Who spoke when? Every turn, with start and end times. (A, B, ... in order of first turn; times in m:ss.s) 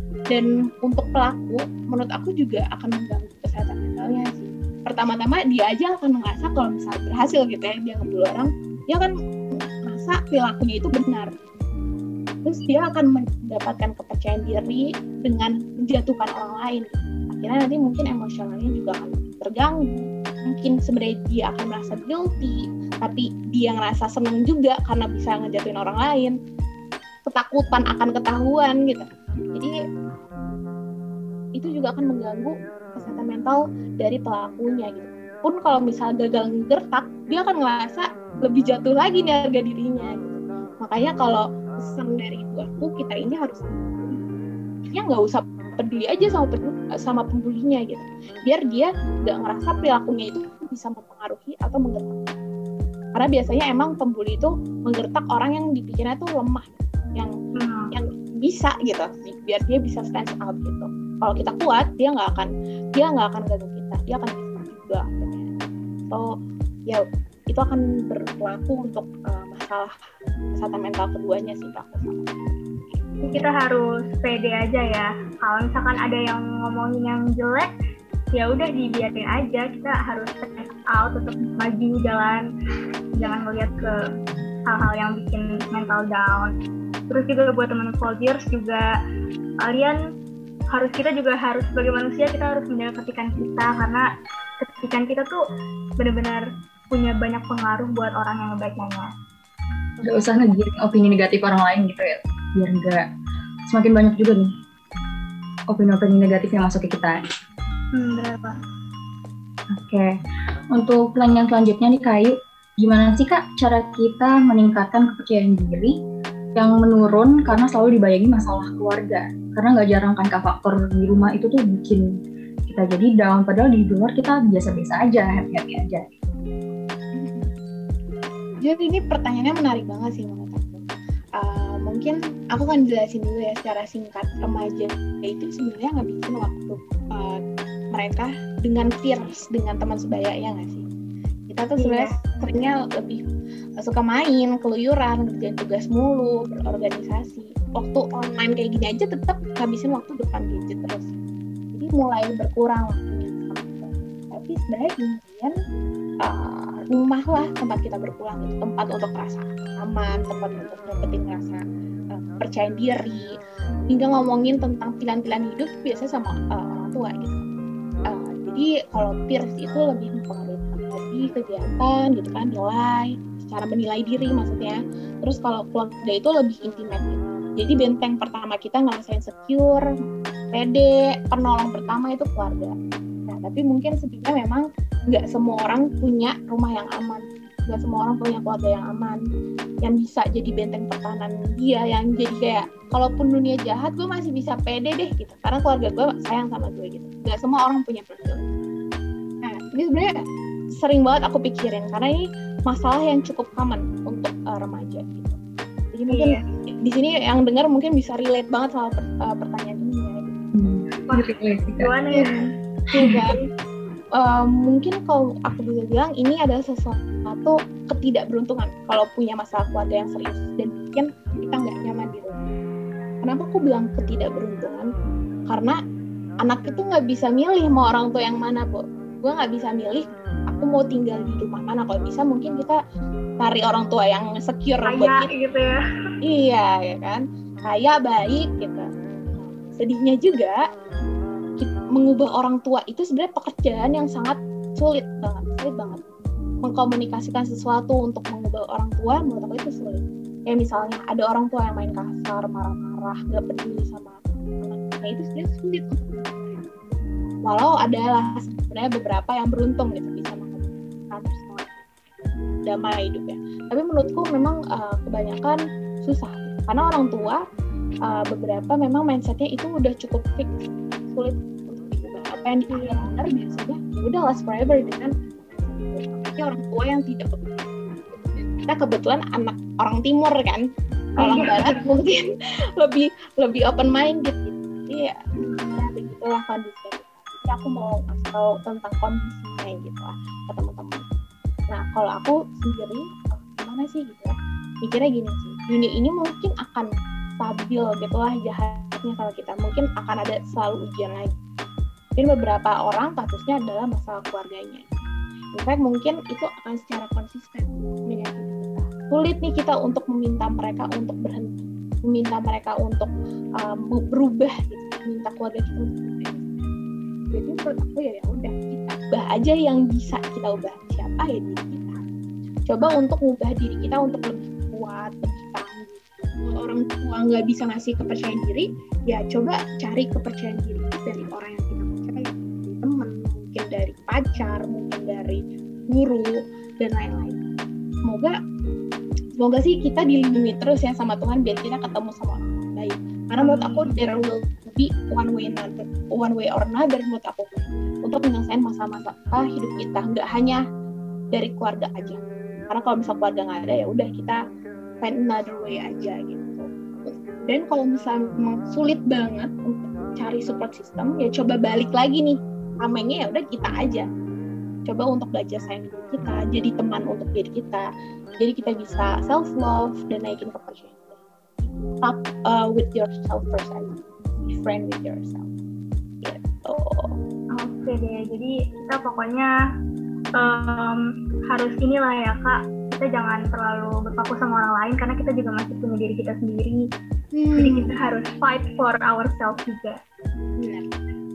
0:00.3-0:09.1 A
0:09.9-0:11.3 A
0:12.4-0:26.3 A
0:27.3-0:29.7 A
0:31.6-0:44.2 A
0:44.8-0:52.4 A
0:53.2-0:57.3 A
0:57.6-0:57.9 B
0:57.9-1:05.5 A
1:06.9-1:09.9 A
1:10.5-1:13.4 A
1:13.2-1:17.7 B
1:18.3-1:22.4 B
1:23.1-1:24.0 B
1:24.7-1:26.5 B
1:27.1-1:28.8 B
1:29.6-1:30.0 B
1:30.7-1:34.0 B
1:34.6-1:35.4 B
1:36.0-1:39.1 B
1:40.0-1:43.0 C
1:43.7-1:44.5 C
1:45.7-1:47.2 C
1:47.9-1:48.6 B
1:49.7-1:50.1 C
1:50.7-1:55.9 C
1:56.5-2:02.0 C
2:02.6-2:06.1 C
2:07.2-2:07.5 A
2:08.6-2:17.4 A
2:17.9-2:20.8 A
2:21.5-2:23.2 A
2:21.8-2:22.1 B
2:23.8-2:31.1 A
2:31.7-2:35.5 A
2:36.2-2:41.6 A
2:42.1-2:43.3 A
2:43.9-2:47.5 A
2:48.1-2:59.8 A
3:00.5-3:02.7 A
3:03.3-3:09.2 A
3:09.8-3:18.5 A
3:19.4-3:20.1 A
3:20.8-3:25.4 A
3:25.9-3:30.5 A
3:26.1-3:26.4 B
3:30.5-3:31.9 C
3:31.1-3:32.4 B
3:32.1-3:33.4 A
3:34.2-3:42.5 A
3:43.2-3:44.9 A
3:45.5-3:45.8 A
3:46.4-3:52.8 A
3:53.4-3:55.3 A
3:54.8-3:55.8 B
3:56.2-4:00.6 A
4:01.6-4:06.0 A
4:06.6-4:16.6 A
4:17.4-4:21.9 A
4:22.5-4:27.4 A
4:28.1-4:40.6 A
4:32.7-4:33.0 B
4:41.2-4:41.8 B
4:41.2-4:42.2 A
4:42.8-4:51.0 A
4:45.4-4:45.8 B
4:51.7-5:01.3 A
5:02.2-5:05.0 A
5:05.5-5:13.1 A
5:13.6-5:16.7 A
5:17.3-5:22.0 A
5:22.7-5:37.4 A
5:38.0-5:38.3 A
5:39.4-5:50.6 A
5:43.4-5:44.1 B
5:51.3-5:54.4 A
5:55.0-6:04.0 A
6:04.8-6:07.9 A
6:08.4-6:15.5 A
6:16.2-6:17.1 A
6:17.6-6:19.5 B
6:20.4-6:21.0 B
6:21.5-6:26.8 B
6:27.3-6:28.0 A
6:27.6-6:30.0 B
6:30.6-6:30.9 A